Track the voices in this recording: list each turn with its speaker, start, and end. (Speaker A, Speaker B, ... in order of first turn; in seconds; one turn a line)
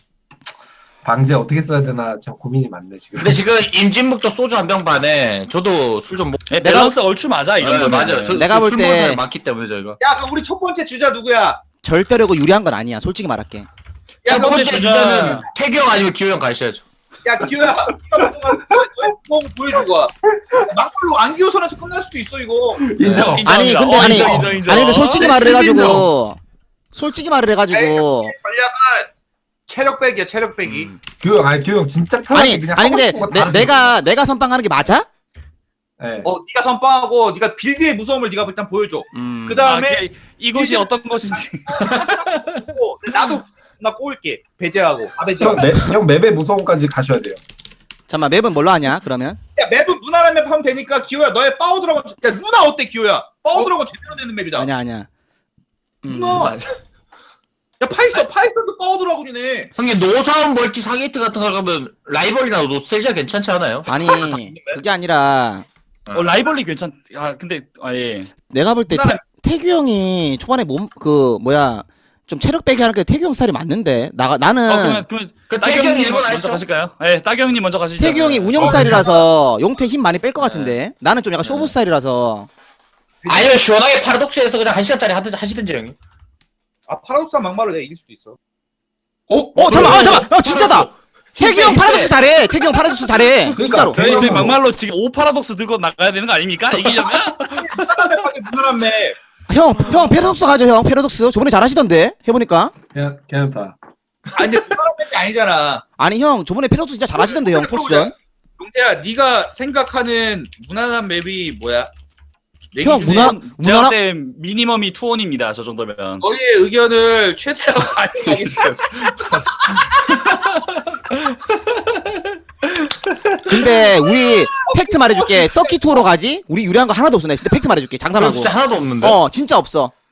Speaker A: 1.0-3.4
Speaker B: 3.1-6.5
Speaker C: 6.5-8.4
Speaker D: 6.6-6.9
Speaker B: 7.6-10.0
Speaker D: 8.3-9.2
Speaker E: 10.0-11.6
Speaker D: 11.8-13.7
Speaker E: 14.2-15.3
Speaker B: 14.2-16.9
Speaker C: 14.2-15.5
Speaker E: 17.2-22.8
Speaker A: 22.8-24.6
Speaker B: 23.0-23.4
Speaker C: 23.2-25.3
Speaker D: 23.4-26.4
Speaker A: 25.2-26.1
Speaker E: 25.2-26.0
Speaker D: 26.9-28.3
Speaker E: 27.7-29.1
Speaker E: 29.7-30.9
Speaker A: 31.2-34.0
Speaker D: 32.3-35.1
Speaker A: 36.0-36.3
Speaker E: 36.2-40.9
Speaker D: 39.1-39.7
Speaker C: 39.6-42.0
Speaker E: 41.7-45.9
Speaker B: 41.8-42.5
Speaker A: 45.4-47.4
Speaker D: 48.1-49.4
Speaker E: 49.5-54.7
Speaker D: 54.5-55.1
Speaker D: 56.0-56.5
Speaker E: 56.0-56.6
Speaker B: 56.4-56.7
Speaker E: 57.8-59.7
Speaker B: 59.8-63.9
Speaker D: 63.9-65.7
Speaker E: 63.9-64.8
Speaker B: 66.0-66.4
Speaker C: 66.1-68.3
Speaker D: 68.5-75.0
Speaker E: 68.9-69.2
Speaker C: 74.7-79.0
Speaker B: 75.5-76.6
Speaker D: 78.0-82.5
Speaker A: 78.6-79.1
Speaker E: 78.7-79.0
Speaker B: 80.4-80.8
Speaker B: 81.4-81.7
Speaker E: 83.2-83.5
Speaker B: 83.3-85.9
Speaker E: 86.9-88.4
Speaker A: 89.3-90.3
Speaker D: 89.5-94.4
Speaker B: 89.6-92.1
Speaker A: 93.6-94.6
Speaker C: 93.9-97.5
Speaker E: 97.4-99.2
Speaker D: 99.5-102.7
Speaker A: 102.9-103.8
Speaker E: 104.3-105.8
Speaker D: 106.0-108.1
Speaker E: 107.2-111.9
Speaker E: 112.7-113.3
Speaker D: 112.8-113.9
Speaker C: 112.8-116.2
Speaker E: 116.2-119.9
Speaker B: 121.1-121.7
Speaker B: 122.8-123.3
Speaker D: 123.5-129.9
Speaker E: 123.9-125.9
Speaker B: 128.1-129.2